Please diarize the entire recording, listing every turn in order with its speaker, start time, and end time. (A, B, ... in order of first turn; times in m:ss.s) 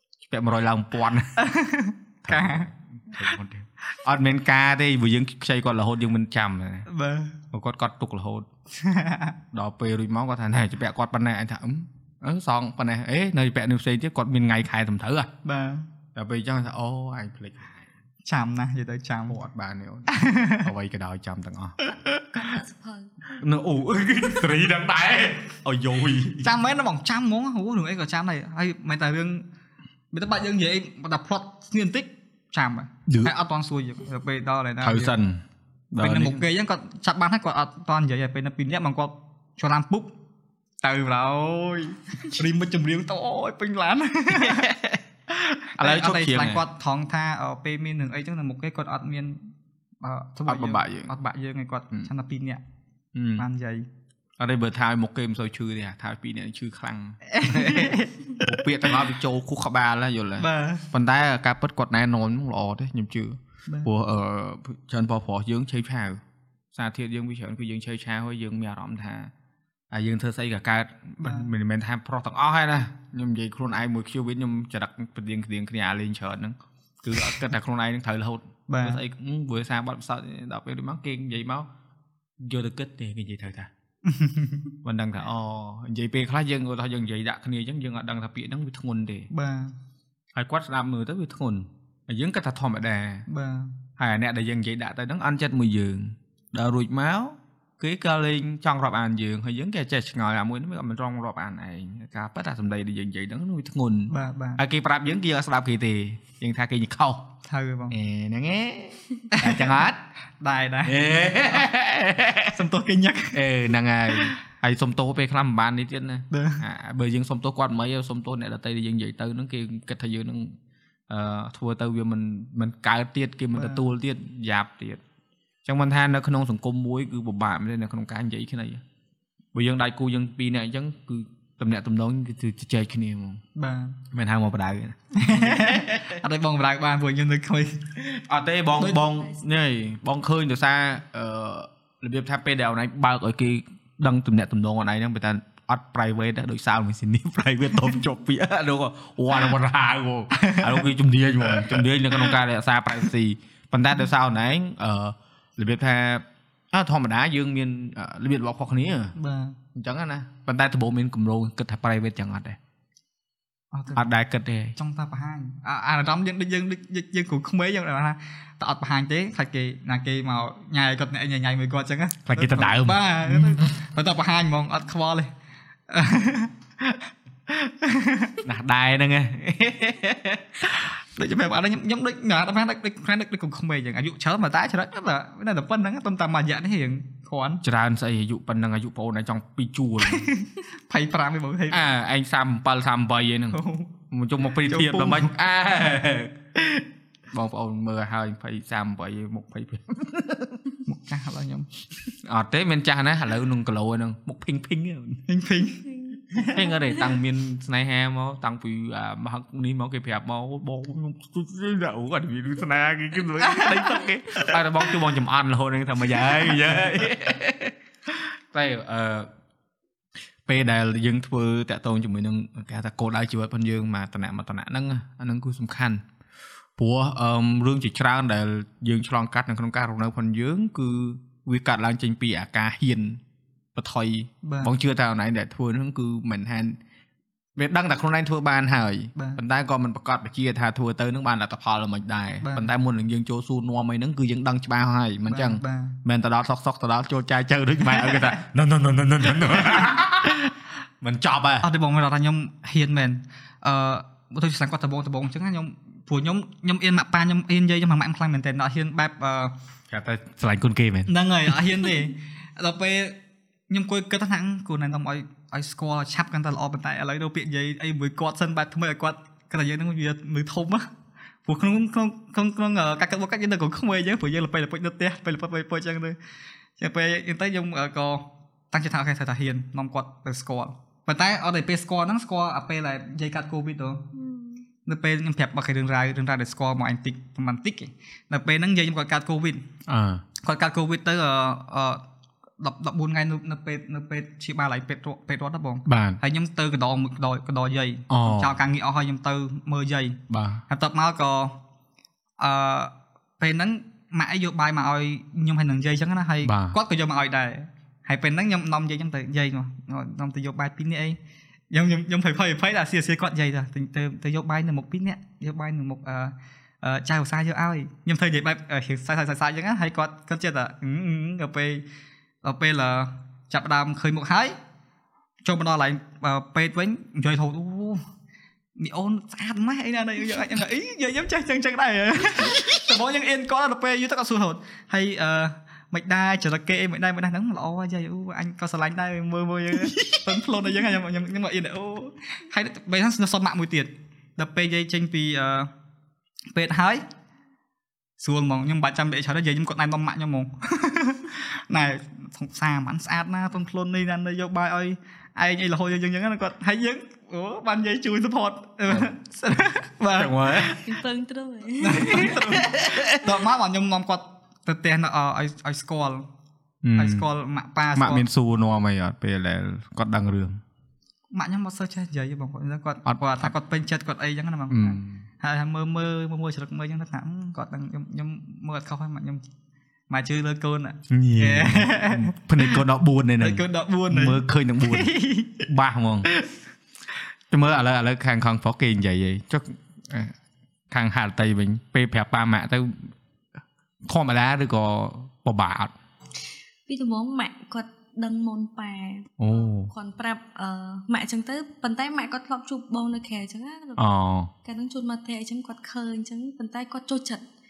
0:00.2-0:01.4 A
0:01.4-0:02.7 B
0:02.2-0:06.9 A
0:06.9-0:07.4 B
0:07.5-0:08.5 A
0:08.7-0:09.4 B
0:09.5-0:15.3 A
0:15.4-0:15.9 B
0:16.1-0:17.8 A
0:18.2-0:19.4 B
0:19.3-0:21.8 A
0:20.1-0:20.7 B
0:21.8-0:22.5 B
0:22.3-0:23.4 C
0:23.4-0:26.6 A
0:26.4-0:29.4 B
0:30.1-0:35.1 B
0:33.1-0:33.3 A
0:34.8-0:36.4 A
0:36.0-0:40.2 B
0:40.8-0:44.7 B
0:44.3-0:45.0 A
0:45.7-0:49.4 B
0:45.8-0:46.6 A
0:50.0-0:52.6 B
0:50.5-0:51.1 A
0:53.1-0:53.4 A
0:53.4-0:53.9 B
0:54.4-1:06.2 A
0:57.3-0:58.5 B
1:00.4-1:00.8 B
1:06.7-1:09.3 A
1:09.9-1:21.7 A
1:11.2-1:11.5 B
1:18.7-1:19.0 B
1:22.4-1:23.7 A
1:24.0-1:24.7 B
1:24.8-1:29.3 A
1:29.3-1:29.8 B
1:30.3-1:33.2 A
1:33.3-1:33.8 B
1:34.0-1:47.3 A
1:44.1-1:44.6 B
1:47.4-1:47.9 B
1:47.9-1:50.0 A
1:49.3-1:49.8 B
1:50.4-1:51.7 B
1:50.8-1:52.6 A
1:52.5-1:53.4 B
1:53.3-2:00.6 A
1:56.3-1:56.6 B
2:01.1-2:05.0 A
2:03.5-2:03.9 B
2:05.6-2:08.8 A
2:09.5-2:13.4 A
2:13.6-2:14.0 B
2:14.1-2:16.2 A
2:15.1-2:18.0 B
2:18.1-2:39.1 A
2:18.8-2:19.0 B
2:30.3-2:30.8 B
2:31.6-2:32.3 B
2:39.1-2:39.6 B
2:39.7-2:42.6 A
2:43.7-2:44.0 B
2:43.9-2:44.8 A
2:44.8-2:55.3 B
2:52.2-2:53.7 A
2:55.9-2:58.4 B
2:58.4-3:00.7 A
3:00.7-3:07.6 B
3:07.6-3:10.3 A
3:10.0-3:11.9 B
3:11.7-3:16.3 A
3:13.5-3:13.9 B
3:14.6-3:15.3 B
3:16.6-3:16.8 B
3:17.3-3:20.6 A
3:20.8-3:21.7 B
3:22.1-3:25.2 A
3:25.3-3:26.6 B
3:26.4-3:39.3 A
3:33.4-3:34.6 B
3:40.4-3:46.0 A
3:46.8-3:53.2 A
3:53.8-3:56.8 A
3:54.4-3:54.7 B
3:57.6-4:11.7 A
3:59.2-3:59.4 B
4:02.4-4:02.7 B
4:05.3-4:06.0 B
4:11.6-4:19.5 B
4:19.9-4:21.9 A
4:21.1-4:23.2 B
4:23.7-4:30.9 B
4:31.4-4:36.2 B
4:36.8-4:44.0 B
4:44.1-4:44.6 C
4:44.8-4:49.6 B
4:49.9-4:50.2 A
4:50.4-4:52.0 B
4:52.6-5:01.6 B
4:55.8-4:56.2 A
4:58.1-4:58.6 A
5:00.3-5:00.6 A
5:02.4-5:11.2 B
5:06.4-5:06.8 A
5:11.7-5:21.8 B
5:22.4-5:24.6 B
5:25.4-5:28.0 B
5:28.8-5:45.7 B
5:39.7-5:40.3 A
5:46.5-5:47.0 B
5:48.2-6:00.8 B
6:00.2-6:00.8 A
6:00.7-6:02.5 C
6:01.8-6:06.3 B
6:02.0-6:03.4 A
6:06.8-6:07.3 A
6:07.0-6:08.2 B
6:08.0-6:10.6 A
6:11.3-6:19.4 B
6:13.0-6:13.5 A
6:14.7-6:15.2 A
6:20.1-6:22.8 B
6:21.1-6:25.1 A
6:23.4-6:25.7 B
6:25.6-6:26.3 A
6:27.5-6:30.3 A
6:30.9-6:33.1 A
6:34.0-6:35.9 A
6:36.9-6:44.0 C
6:39.4-6:39.9 A
6:44.0-6:44.5 A
6:44.6-6:47.4 C